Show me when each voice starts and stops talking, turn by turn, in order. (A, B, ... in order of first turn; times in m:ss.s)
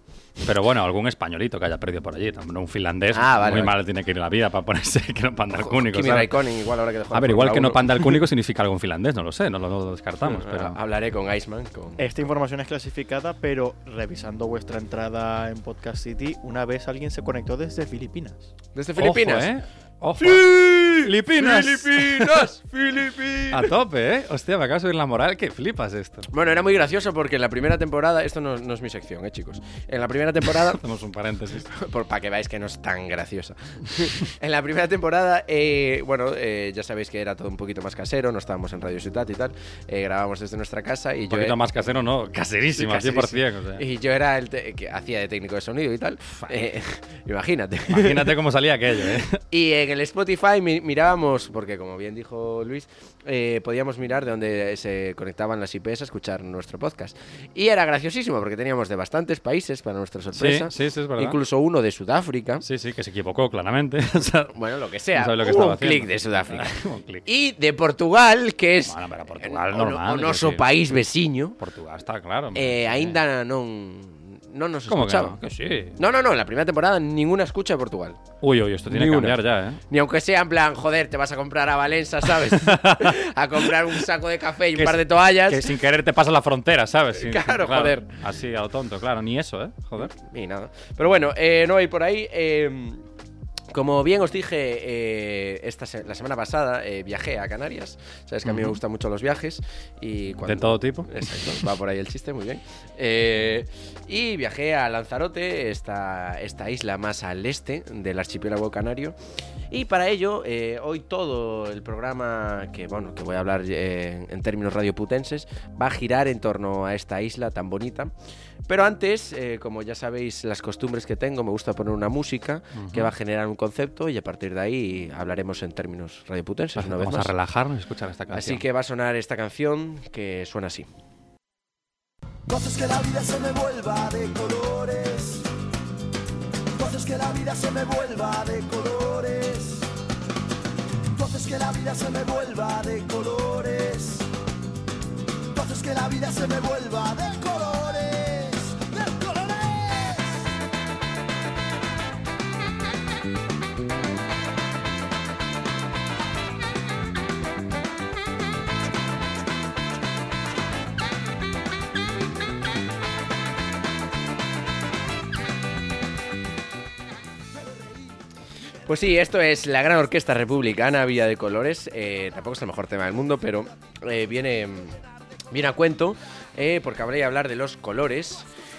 0:00.4-0:06.3 A
0:03.1-0:03.7 B
0:05.5-0:08.2 B
0:07.1-0:10.8 A
0:10.2-0:12.3 B
0:12.0-0:18.5 C
0:18.7-0:19.5 B
0:19.0-0:22.5 A
0:20.2-0:23.7 B
0:23.5-0:26.3 A
0:26.3-0:30.8 B
0:30.6-0:31.7 A
0:31.6-0:41.6 B
0:41.3-0:43.8 A
0:42.7-0:48.3 B
0:47.9-0:49.4 A
0:49.5-1:02.6 B
1:00.3-1:01.4 A
1:02.6-1:04.5 A
1:04.5-1:11.6 B
1:05.1-1:07.2 A
1:08.8-1:11.0 A
1:11.6-1:13.2 A
1:12.5-1:15.4 B
1:14.9-1:16.0 A
1:16.0-1:18.2 B
1:18.4-1:19.8 A
1:18.9-1:25.7 B
1:22.2-1:23.2 A
1:24.7-1:30.1 A
1:27.1-1:28.1 B
1:30.0-1:33.0 B
1:33.7-1:49.1 B
1:38.4-1:38.8 A
1:40.4-1:41.6 A
1:49.7-1:58.1 B
1:58.7-2:07.3 B
2:02.7-2:03.1 A
2:06.7-2:08.6 A
2:08.3-2:10.9 B
2:14.8-2:15.4 D
2:18.7-2:19.3 D
2:22.2-2:22.7 D
2:23.4-2:23.8 D
2:25.7-2:26.1 D
2:27.2-2:30.3 D
2:48.8-2:55.0 B
2:55.5-2:58.4 B